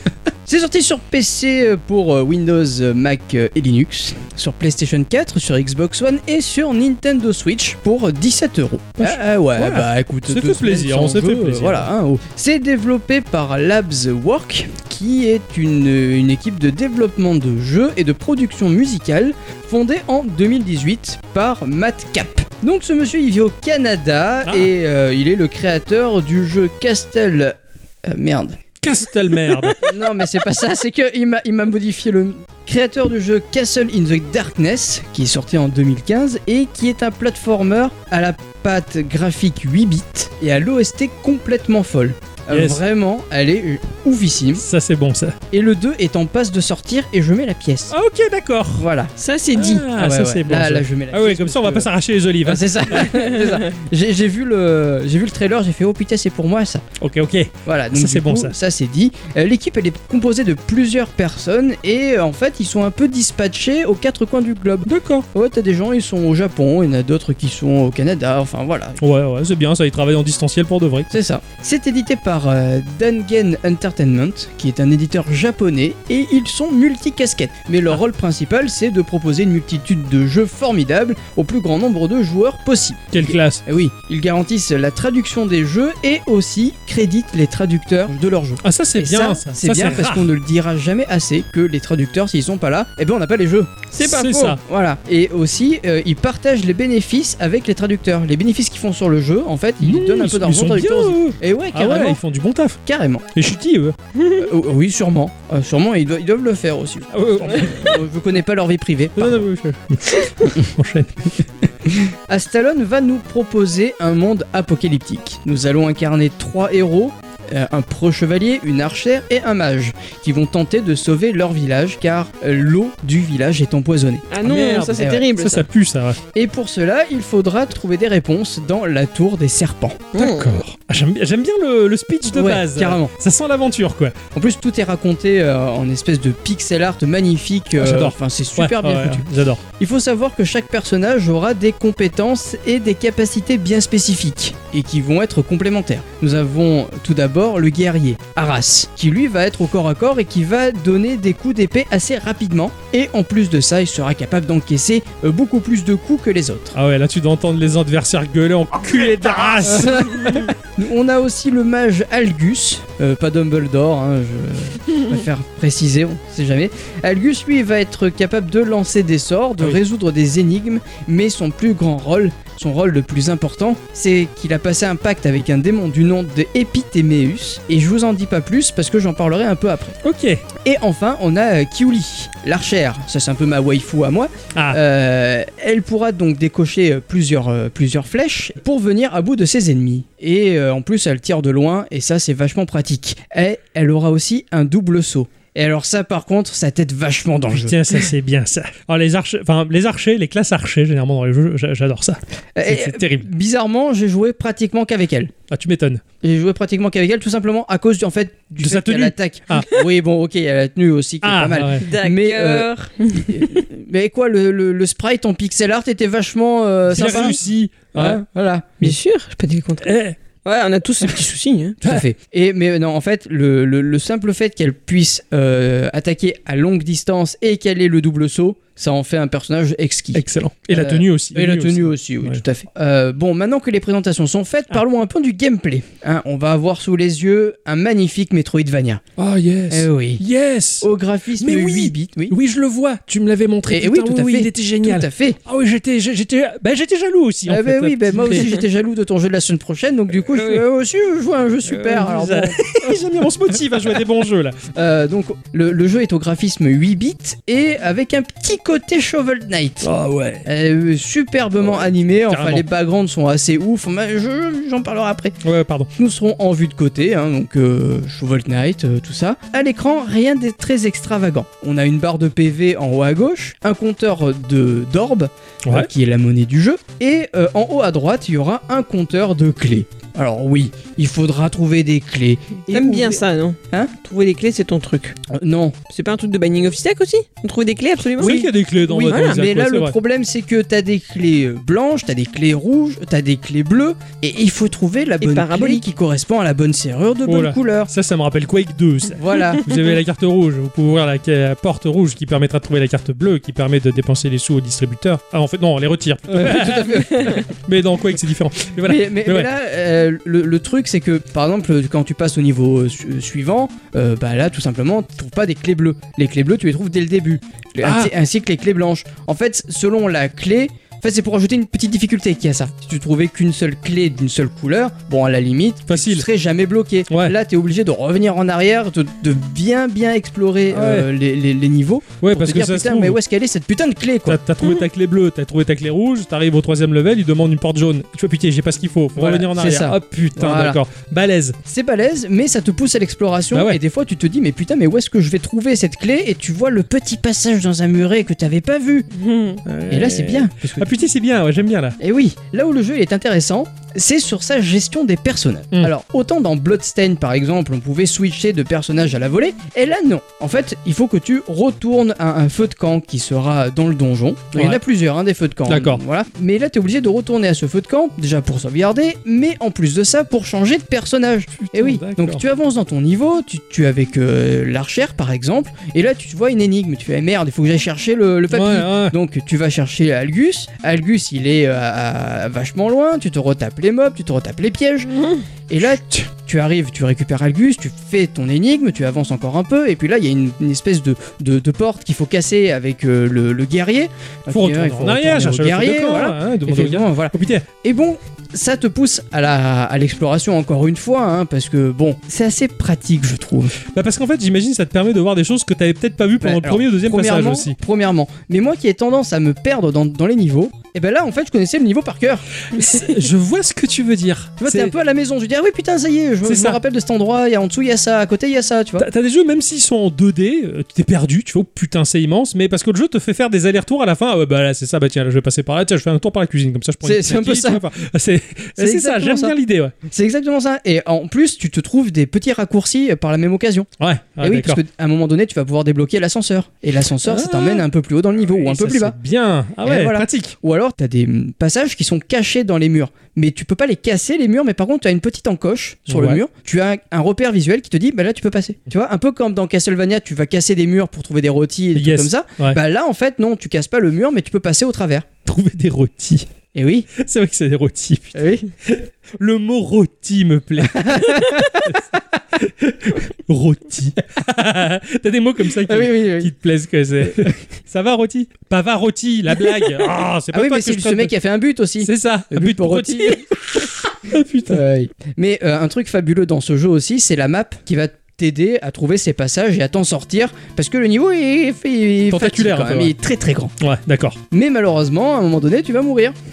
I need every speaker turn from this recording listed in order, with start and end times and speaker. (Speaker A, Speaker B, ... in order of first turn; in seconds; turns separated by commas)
Speaker A: 0.4-28.6, Speaker B: 9.0-11.9, Speaker B: 24.4-24.7, Speaker B: 28.8-29.9, Speaker A: 29.7-44.6, Speaker B: 42.5-42.8, Speaker B: 44.6-45.4, Speaker A: 45.5-47.9, Speaker B: 47.9-48.9, Speaker A: 48.8-49.1, Speaker C: 49.2-49.8, Speaker B: 49.5-53.1, Speaker A: 49.9-51.9, Speaker A: 52.4-56.9, Speaker B: 57.0-58.5, Speaker A: 57.6-69.0, Speaker B: 64.8-65.2, Speaker B: 69.0-71.1, Speaker A: 71.1-93.9, Speaker B: 83.1-83.6, Speaker B: 88.6-90.3, Speaker C: 93.9-94.5, Speaker B: 94.0-94.6, Speaker A: 94.5-102.2, Speaker B: 99.8-102.8, Speaker A: 102.8-103.3, Speaker B: 103.3-104.0, Speaker C: 104.2-104.4, Speaker A: 104.4-109.4, Speaker B: 107.1-108.0, Speaker B: 109.2-111.3, Speaker A: 111.9-124.2, Speaker C: 124.3-125.7, Speaker B: 124.4-126.2, Speaker A: 125.0-125.3, Speaker A: 126.3-130.1, Speaker C: 130.1-130.6, Speaker B: 130.1-134.2, Speaker A: 132.3-133.1, Speaker A: 134.3-139.2, Speaker B: 137.8-139.6, Speaker A: 139.8-156.8, Speaker B: 156.7-160.4, Speaker A: 159.7-180.0, Speaker B: 180.0-180.4, Speaker A: 180.6-198.1, Speaker B: 184.5-184.8, Speaker B: 197.5-203.3, Speaker A: 202.5-205.3, Speaker B: 205.5-206.0, Speaker A: 206.2-217.4, Speaker B: 208.6-209.7, Speaker B: 211.2-211.8, Speaker C: 211.8-213.6, Speaker B: 216.9-218.2, Speaker A: 217.9-218.8, Speaker C: 218.8-219.9, Speaker B: 219.8-220.2, Speaker C: 220.4-221.8, Speaker A: 221.8-239.0, Speaker B: 230.1-232.4, Speaker B: 239.2-240.9, Speaker A: 239.7-240.2, Speaker A: 240.8-242.3, Speaker B: 241.4-248.5, Speaker A: 243.7-245.4, Speaker A: 247.5-253.0, Speaker B: 250.3-250.6, Speaker B: 251.6-254.6, Speaker A: 253.7-254.0, Speaker A: 254.7-259.9, Speaker B: 259.8-260.4, Speaker A: 260.4-265.4, Speaker B: 261.7-262.6, Speaker B: 265.4-265.9, Speaker A: 265.9-283.9, Speaker C: 282.7-285.2, Speaker A: 285.3-285.8, Speaker C: 285.9-288.3, Speaker B: 288.2-289.9, Speaker A: 288.2-297.9, Speaker C: 289.1-289.4, Speaker C: 295.2-295.8, Speaker B: 297.2-309.5, Speaker A: 299.1-299.6, Speaker A: 306.3-307.4, Speaker A: 308.8-334.4, Speaker B: 317.8-318.1, Speaker B: 325.9-326.2, Speaker B: 327.1-327.3, Speaker B: 330.7-331.1, Speaker B: 332.2-333.2, Speaker B: 334.3-341.6, Speaker A: 339.1-340.8, Speaker A: 341.6-349.1, Speaker B: 343.5-343.8, Speaker C: 349.1-349.6, Speaker B: 349.6-351.9, Speaker A: 349.9-350.9, Speaker A: 352.0-385.1, Speaker B: 365.7-366.0, Speaker B: 371.6-372.4, Speaker B: 378.5-379.1, Speaker A: 385.7-403.8, Speaker B: 394.5-397.6, Speaker B: 403.9-407.7, Speaker A: 406.4-412.5, Speaker B: 412.7-414.9, Speaker A: 414.6-419.1, Speaker B: 416.4-416.8, Speaker B: 419.0-429.9, Speaker A: 427.0-427.8, Speaker A: 428.8-429.5, Speaker A: 430.1-433.9, Speaker B: 434.0-434.8, Speaker A: 434.4-439.1, Speaker B: 437.2-437.8, Speaker B: 438.6-440.5, Speaker A: 439.8-455.3, Speaker B: 446.1-446.4, Speaker B: 451.9-452.8, Speaker B: 455.4-456.4, Speaker A: 456.7-457.1, Speaker B: 457.1-462.0, Speaker A: 458.3-458.7, Speaker A: 460.9-461.9, Speaker B: 462.6-471.3, Speaker A: 465.8-466.5, Speaker A: 467.2-467.5, Speaker A: 469.5-473.4, Speaker B: 472.0-474.8, Speaker A: 474.7-483.7, Speaker B: 482.3-483.1, Speaker B: 483.8-484.4, Speaker A: 484.5-486.4